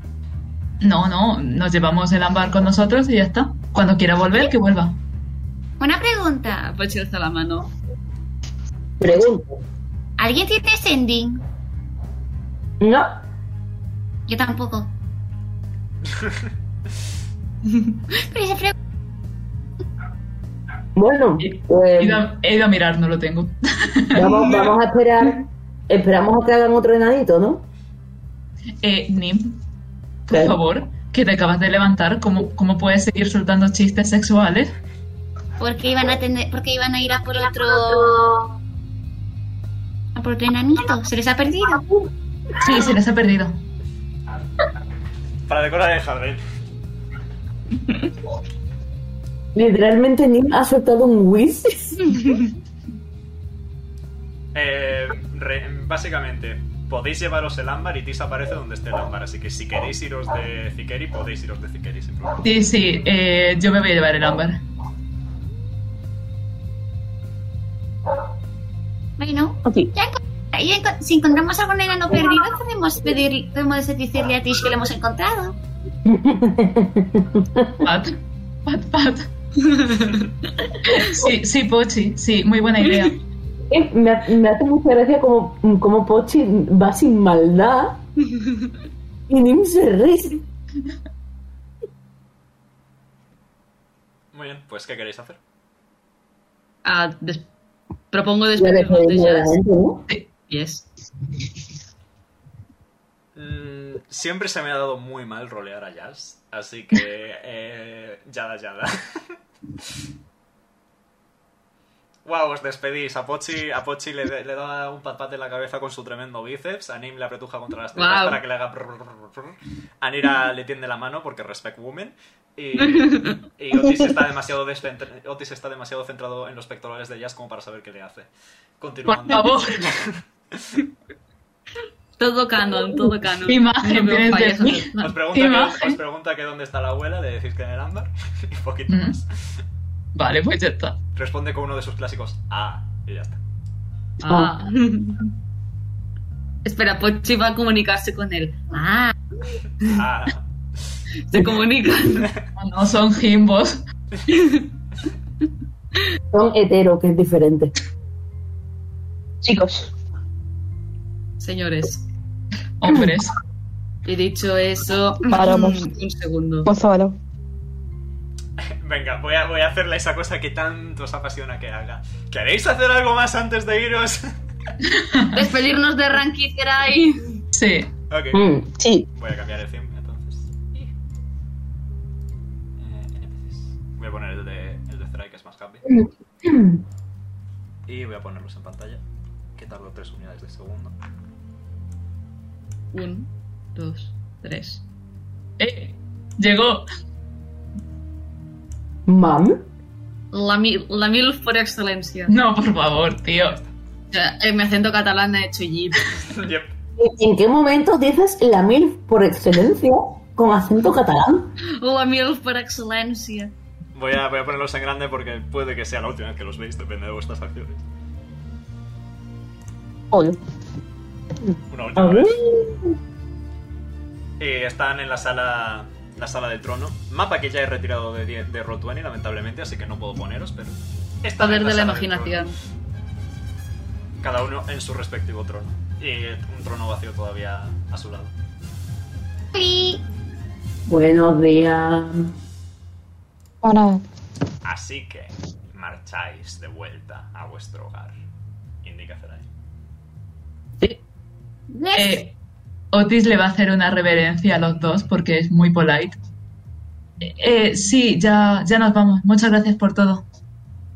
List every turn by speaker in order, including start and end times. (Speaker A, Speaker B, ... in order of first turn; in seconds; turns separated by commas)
Speaker A: 0.8-5.0, Speaker B: 5.8-6.6, Speaker C: 6.6-7.7, Speaker D: 9.0-9.5, Speaker B: 10.2-11.4, Speaker D: 12.8-13.2, Speaker B: 14.3-14.9, Speaker E: 16.1-16.4, Speaker B: 18.2-18.7, Speaker D: 20.9-22.2, Speaker A: 21.4-24.7, Speaker D: 24.1-27.6, Speaker A: 28.8-29.6, Speaker A: 30.3-34.7, Speaker D: 30.3-30.6, Speaker B: 35.6-38.4, Speaker B: 40.1-41.9, Speaker A: 42.6-43.6, Speaker E: 45.5-46.4, Speaker D: 49.5-52.1, Speaker E: 54.5-62.4, Speaker A: 62.4-64.6, Speaker B: 69.2-75.6, Speaker D: 76.0-77.8, Speaker A: 77.8-79.3, Speaker C: 79.6-80.3, Speaker A: 80.8-83.2, Speaker D: 83.7-88.0, Speaker C: 88.4-88.7, Speaker D: 89.3-90.4, Speaker E: 94.3-95.4, Speaker C: 96.8-97.5, Speaker C: 98.1-99.5, Speaker D: 98.5-100.1, Speaker C: 100.5-100.9, Speaker E: 103.3-109.4, Speaker E: 112.2-128.3, Speaker C: 118.0-118.4, Speaker C: 122.8-123.4, Speaker E: 128.8-130.7, Speaker A: 129.1-130.0, Speaker C: 132.2-135.0, Speaker A: 133.5-136.0, Speaker E: 135.0-139.3, Speaker A: 138.9-139.2, Speaker A: 140.1-141.0, Speaker E: 141.1-143.4, Speaker C: 144.2-145.3, Speaker D: 144.3-144.5, Speaker C: 146.6-148.7, Speaker B: 148.7-149.1, Speaker E: 149.8-150.4, Speaker C: 151.3-152.3, Speaker A: 152.6-153.8, Speaker C: 154.3-154.7, Speaker D: 156.3-157.7, Speaker F: 159.4-159.9, Speaker C: 161.4-162.1, Speaker A: 162.8-163.3, Speaker C: 164.1-166.7, Speaker F: 165.3-165.9, Speaker F: 166.7-167.2, Speaker E: 168.8-174.3, Speaker A: 174.9-175.4, Speaker C: 175.3-177.3, Speaker A: 177.5-177.9, Speaker E: 178.1-178.4, Speaker D: 178.3-178.7, Speaker F: 178.8-179.1, Speaker E: 179.1-180.9, Speaker E: 182.8-185.9, Speaker D: 185.9-186.8, Speaker E: 187.9-189.0, Speaker E: 189.6-190.9, Speaker C: 192.9-194.8, Speaker A: 195.6-196.8, Speaker D: 199.1-199.7, Speaker C: 200.3-202.3, Speaker A: 202.3-203.6, Speaker C: 204.1-206.4, Speaker E: 206.4-206.7, Speaker D: 207.0-211.5, Speaker C: 211.8-213.5, Speaker E: 213.9-217.8, Speaker F: 220.1-220.4, Speaker E: 221.7-222.4, Speaker D: 221.9-222.9, Speaker E: 224.4-232.4, Speaker C: 231.4-232.6, Speaker E: 234.2-238.3, Speaker B: 239.5-240.0, Speaker D: 240.9-242.3, Speaker F: 243.6-244.0, Speaker E: 244.6-248.1, Speaker E: 248.8-249.4, Speaker B: 251.7-252.2, Speaker A: 251.9-252.3, Speaker A: 252.9-256.2, Speaker A: 257.2-260.2